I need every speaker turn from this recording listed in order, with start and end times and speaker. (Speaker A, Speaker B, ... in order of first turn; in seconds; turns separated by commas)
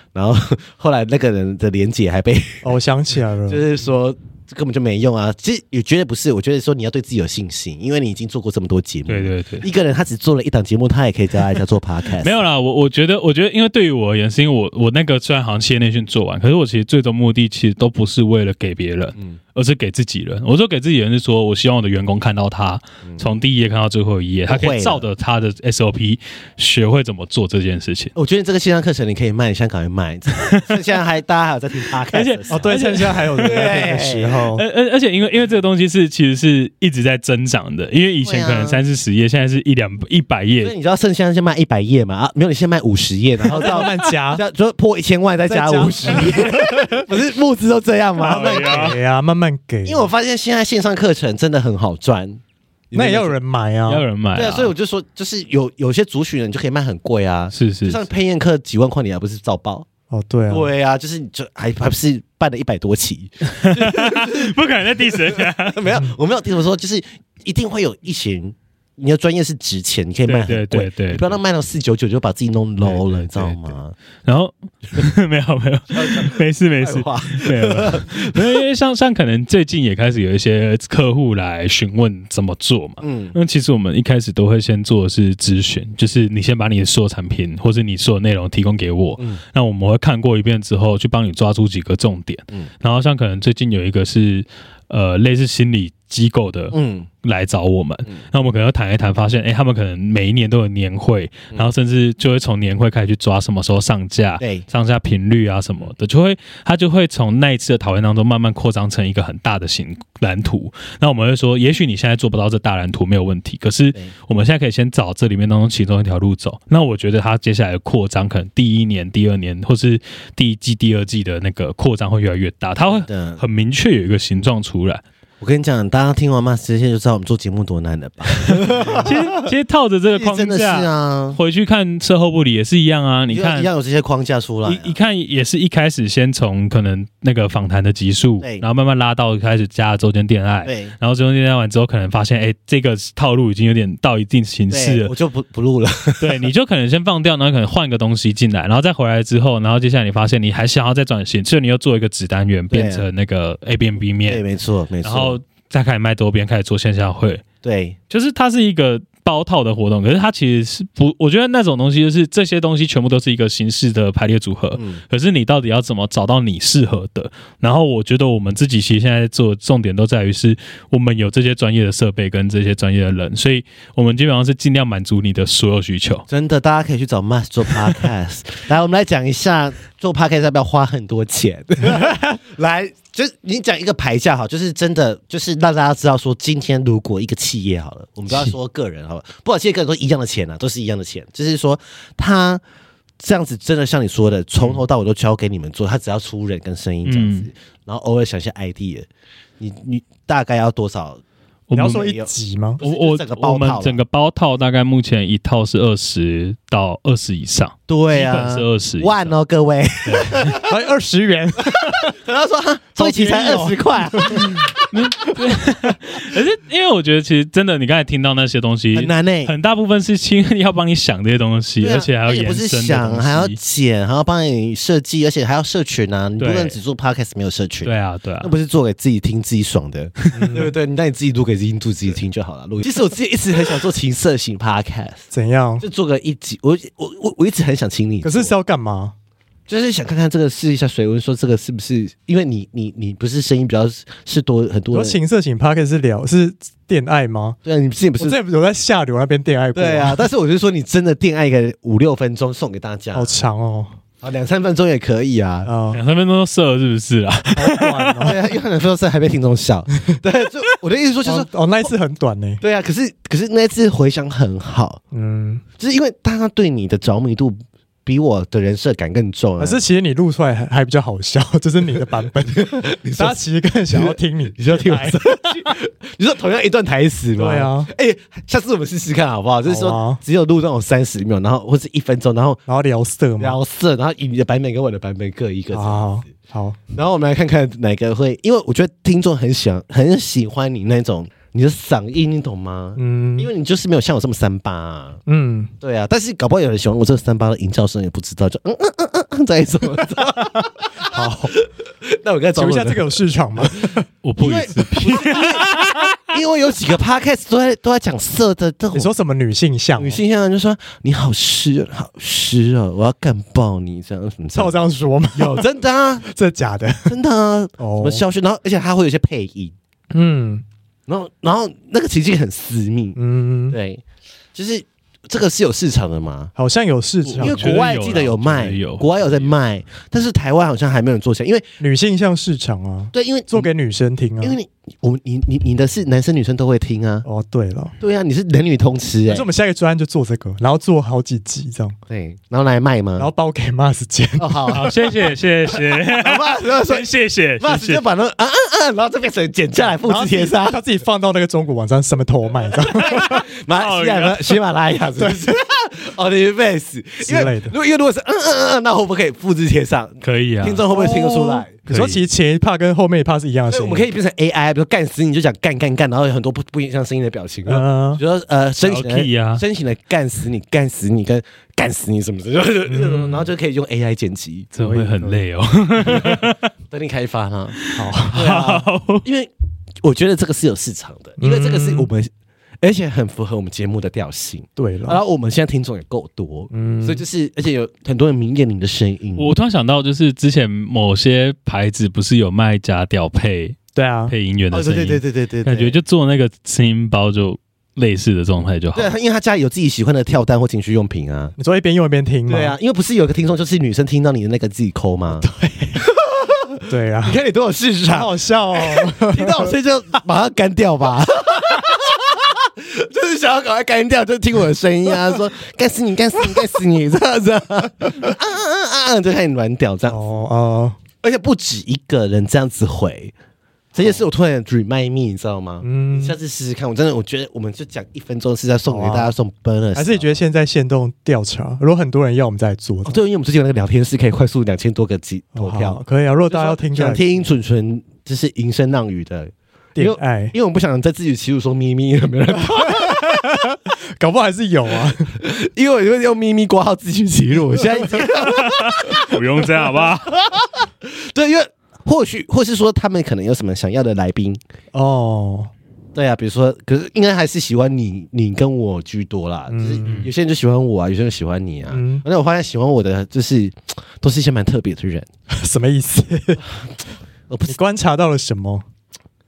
Speaker A: 0.1-2.8, Speaker B: 2.6-3.6, Speaker A: 3.5-12.4, Speaker C: 9.1-9.7, Speaker C: 12.2-28.1, Speaker A: 24.5-25.1, Speaker A: 28.1-34.4, Speaker C: 30.3-30.8, Speaker C: 32.1-33.8, Speaker B: 32.5-34.6, Speaker C: 34.5-40.7, Speaker A: 38.2-38.8, Speaker A: 40.6-49.0, Speaker B: 43.6-44.4, Speaker B: 45.5-47.0, Speaker C: 48.2-49.0, Speaker B: 48.4-50.1, Speaker A: 49.9-53.4, Speaker B: 52.9-54.0, Speaker C: 53.9-54.7, Speaker A: 54.4-59.9, Speaker C: 57.5-58.0, Speaker B: 60.1-60.7, Speaker A: 60.5-74.0, Speaker C: 63.5-65.8, Speaker C: 70.3-71.3, Speaker C: 72.8-73.7, Speaker C: 74.3-125.0, Speaker A: 75.9-78.6, Speaker A: 83.0-83.4, Speaker A: 96.7-97.1, Speaker A: 104.4-104.7, Speaker A: 122.9-123.4, Speaker A: 125.4-129.2, Speaker C: 128.4-133.7, Speaker A: 130.2-131.4, Speaker A: 133.3-135.0, Speaker C: 134.7-145.1, Speaker A: 140.7-140.9, Speaker A: 144.7-146.4, Speaker C: 146.2-154.4, Speaker A: 152.7-153.1, Speaker A: 154.3-155.4, Speaker C: 155.0-157.4, Speaker A: 157.6-158.0, Speaker C: 158.1-176.2, Speaker A: 176.3-192.6, Speaker A: 193.2-199.1, Speaker C: 197.1-197.5, Speaker A: 199.6-201.2, Speaker C: 201.7-202.1, Speaker B: 201.7-202.8, Speaker A: 201.8-204.0, Speaker C: 202.8-209.3, Speaker A: 207.9-210.7, Speaker C: 210.1-210.6, Speaker B: 210.6-212.2, Speaker A: 212.1-214.9, Speaker B: 212.9-214.7, Speaker C: 214.9-223.6, Speaker A: 218.9-219.5, Speaker A: 221.8-235.3, Speaker C: 226.4-226.8, Speaker C: 227.8-228.5, Speaker B: 230.3-230.7, Speaker B: 235.3-235.9, Speaker A: 235.8-238.5, Speaker B: 238.2-239.1, Speaker A: 239.7-245.2, Speaker B: 244.9-247.6, Speaker A: 247.7-248.4, Speaker B: 248.2-250.3, Speaker A: 249.8-253.4, Speaker B: 253.1-253.9, Speaker A: 254.2-255.7, Speaker B: 255.7-256.0, Speaker C: 255.9-258.3, Speaker B: 257.6-258.4, Speaker A: 258.2-261.9, Speaker B: 261.2-262.6, Speaker A: 262.6-265.0, Speaker B: 265.1-265.6, Speaker A: 265.8-269.8, Speaker B: 269.6-275.8, Speaker A: 272.5-273.4, Speaker A: 273.9-282.6, Speaker B: 277.4-277.9, Speaker B: 279.7-280.2, Speaker B: 282.7-283.6, Speaker A: 283.4-286.1, Speaker B: 285.7-286.8, Speaker A: 286.9-295.2, Speaker B: 293.0-293.5, Speaker B: 295.3-295.7, Speaker A: 295.8-309.1, Speaker B: 301.1-301.5, Speaker B: 302.6-304.1, Speaker C: 304.2-305.8, Speaker B: 308.9-310.2, Speaker A: 310.0-314.8, Speaker B: 314.5-315.6, Speaker A: 315.3-316.3, Speaker B: 316.3-317.1, Speaker A: 317.1-319.8, Speaker B: 317.8-318.2, Speaker B: 320.1-320.6, Speaker A: 321.1-323.2, Speaker B: 323.2-323.8, Speaker A: 323.7-324.0, Speaker A: 324.6-326.5, Speaker B: 326.6-327.8, Speaker C: 327.2-329.5, Speaker A: 327.4-331.7, Speaker B: 331.8-334.6, Speaker A: 333.1-333.7, Speaker A: 334.4-337.2, Speaker B: 337.2-337.9, Speaker A: 338.0-339.5, Speaker B: 339.3-342.0, Speaker A: 342.1-343.3, Speaker B: 343.2-344.9, Speaker A: 344.4-345.0, Speaker C: 344.7-348.0, Speaker A: 346.0-350.8, Speaker B: 350.0-353.4, Speaker A: 353.0-361.7, Speaker C: 353.7-354.6, Speaker B: 357.2-357.8, Speaker C: 360.2-360.8, Speaker B: 360.9-364.1, Speaker C: 361.9-362.2, Speaker A: 363.7-374.7, Speaker B: 367.7-368.2, Speaker C: 368.8-369.6, Speaker B: 372.9-373.4, Speaker C: 374.7-376.7, Speaker B: 374.8-375.4, Speaker A: 376.0-377.8, Speaker C: 377.8-379.2, Speaker B: 377.9-378.4, Speaker A: 378.3-379.5, Speaker A: 380.0-389.5, Speaker B: 381.4-382.1, Speaker B: 384.8-385.2, Speaker B: 386.7-387.2, Speaker C: 389.4-393.8, Speaker B: 393.9-394.3, Speaker C: 394.3-399.1, Speaker A: 394.7-396.0, Speaker A: 398.9-401.6, Speaker B: 401.6-402.8, Speaker A: 402.5-420.3, Speaker B: 405.3-406.0, Speaker B: 406.9-407.4, Speaker B: 408.1-409.8, Speaker B: 420.1-421.0, Speaker A: 421.2-423.3, Speaker A: 423.9-430.4, Speaker B: 425.8-426.4, Speaker B: 428.9-429.3, Speaker B: 429.9-433.2, Speaker A: 433.0-443.5, Speaker B: 435.6-437.4, Speaker B: 440.0-440.6, Speaker B: 442.6-445.3, Speaker A: 445.4-454.6, Speaker C: 448.4-450.4, Speaker B: 454.9-455.7, Speaker A: 456.1-465.3, Speaker B: 459.7-460.2, Speaker C: 460.1-460.3, Speaker B: 461.9-462.2, Speaker B: 465.5-466.6, Speaker A: 467.5-467.8, Speaker B: 467.7-468.9